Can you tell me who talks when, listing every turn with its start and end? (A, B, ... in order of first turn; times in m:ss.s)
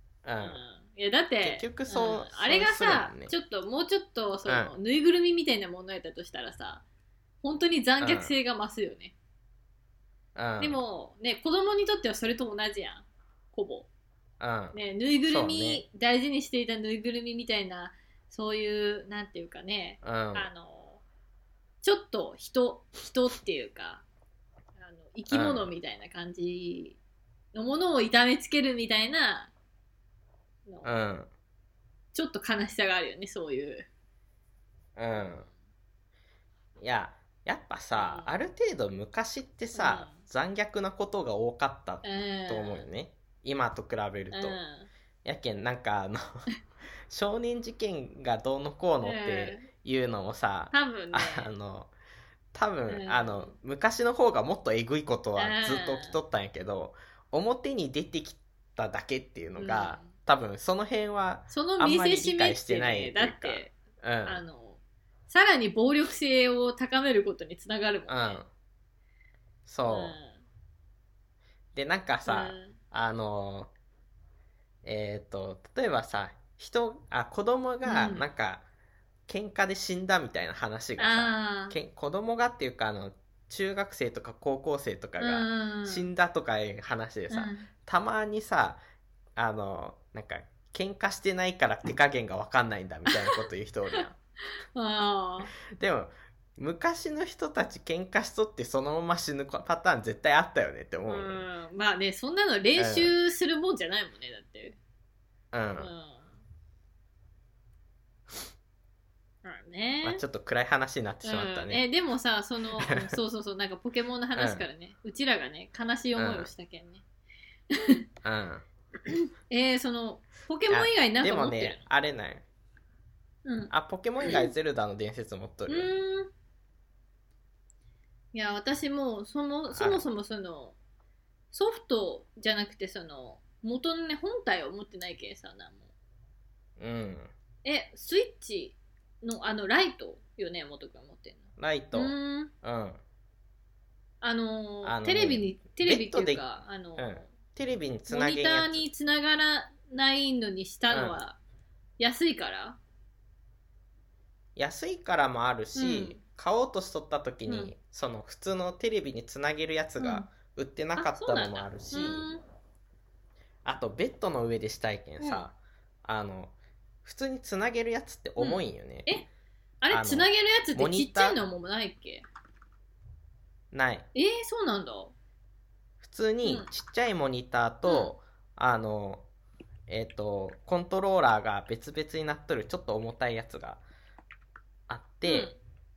0:00.2-0:00.6 A
0:00.4-0:06.8 B
0:01.4-0:03.3 A
0:04.5-0:04.7 A
0:07.4-0:09.1 B
0:08.0-0:08.3 A
0:10.4-0:10.8 A
0:10.6-0:13.9 B
0:14.4-0:15.8 A
0:14.7-0:21.0 B
0:20.0-0:20.5 A
0:21.8-0:24.0 B
0:24.8-0:27.0 B
0:25.3-0:25.7 A
0:27.5-0:29.5 B
0:30.7-0:30.9 B
0:30.8-0:31.3 A
0:32.1-0:33.9 B
0:35.0-0:35.4 A
0:35.1-0:35.5 B
0:36.8-0:44.6 A
0:37.9-0:38.3 B
0:39.7-0:40.2 B
0:42.0-0:42.9 B
0:44.3-0:44.9 B
0:45.2-0:46.2 A
0:47.1-0:51.9 A
0:49.0-0:49.7 B
0:50.7-0:51.5 B
0:52.5-1:04.4 A
0:52.9-0:53.5 B
0:55.4-0:56.2 B
0:59.6-1:00.1 B
1:01.5-1:03.7 B
1:04.2-1:08.4 B
1:08.1-1:08.4 A
1:09.6-1:10.1 A
1:09.9-1:10.4 B
1:11.7-1:13.7 A
1:12.2-1:12.8 B
1:14.8-1:18.6 A
1:17.8-1:18.3 B
1:19.3-1:28.8 A
1:21.0-1:21.8 B
1:25.2-1:26.1 B
1:27.3-1:27.7 B
1:29.4-1:34.1 A
1:33.1-1:34.0 B
1:34.7-1:35.5 B
1:35.7-1:41.4 A
1:41.1-1:44.8 B
1:42.8-1:43.1 A
1:45.5-1:45.9 A
1:45.8-1:46.3 B
1:49.4-1:50.2 B
1:50.0-1:51.8 A
1:51.2-1:57.0 B
1:52.8-1:53.1 A
1:54.3-1:54.6 A
1:56.2-1:56.5 A
1:57.7-1:58.0 B
1:58.2-1:58.6 A
1:59.1-2:01.8 B
2:00.7-2:02.4 A
2:03.4-2:03.7 B
2:03.7-2:05.9 A
2:04.2-2:04.5 B
2:05.7-2:06.3 B
2:08.3-2:10.8 B
2:09.7-2:10.0 A
2:11.5-2:15.8 B
2:16.8-2:17.3 A
2:17.6-2:22.5 B
2:21.6-2:23.0 A
2:24.2-2:27.3 B
2:24.8-2:26.4 A
2:27.0-2:28.8 A
2:28.1-2:31.4 B
2:30.9-2:31.2 A
2:32.0-2:32.8 B
2:34.6-2:42.3 A
2:35.7-2:36.2 B
2:37.5-2:37.7 B
2:40.0-2:40.3 B
2:41.0-2:42.4 B
2:43.6-2:49.2 A
2:45.2-2:45.4 B
2:48.4-2:49.3 B
2:49.8-2:52.2 B
2:49.9-2:51.4 A
2:53.7-2:54.1 A
2:54.1-2:55.1 B
2:56.0-2:59.2 A
2:56.4-2:56.7 B
2:57.8-2:58.1 B
2:59.9-3:03.8 A
3:04.9-3:05.5 A
3:05.2-3:05.6 B